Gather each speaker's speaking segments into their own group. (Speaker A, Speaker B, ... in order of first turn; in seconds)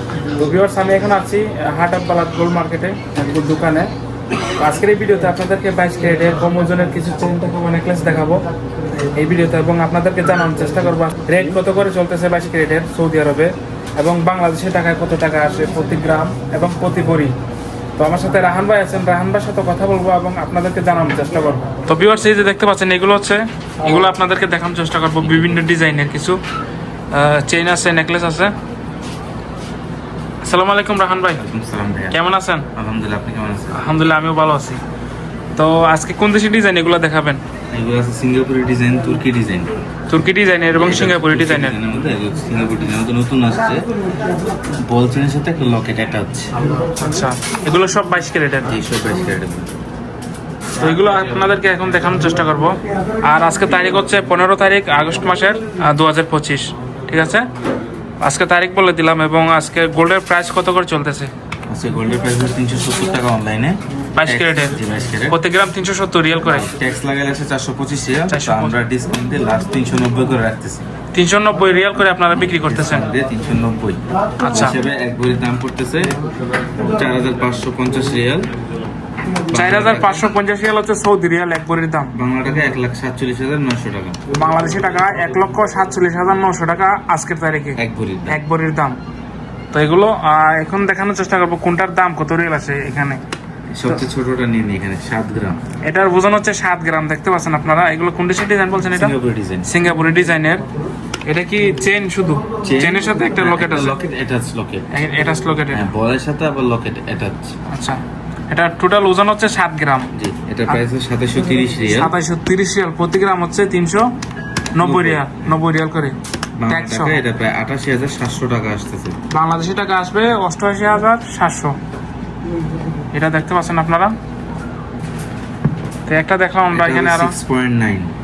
Speaker A: 0.3-3.9, 4.6-8.4, 9.1-17.3, 18.0-26.4, 27.1-28.5, 30.4-31.4, 32.1-32.6, 33.7-34.8, 35.5-37.4, 40.1-41.8, 47.0-48.7, 50.8-57.5, 58.2-61.3, 64.1-64.8, 65.3-66.7, 68.3-68.7, 71.1-73.1, 74.4-74.8, 79.5-82.1, 84.3-89.0, 89.7-93.2, 95.8-100.7, 101.2-104.0, 104.9-105.8, 107.7-110.1, 111.9-114.1, 114.7-116.2, 116.7-117.2, 119.3-121.8, 123.1-124.1, 126.1-127.3
Speaker B: 31.4-32.2, 32.7-33.8, 37.7-39.7, 40.7-43.9, 44.6-46.5, 48.6-49.7, 61.7-65.4, 66.5-70.8, 72.5-76.2, 76.8-78.5, 79.5-80.3, 82.1-84.2, 87.8-88.4, 93.7-95.6, 98.9-99.7, 102.6-104.9, 105.7-107.5, 110.1-112.1, 114.8-115.6, 116.6-119.2, 126.7-128.1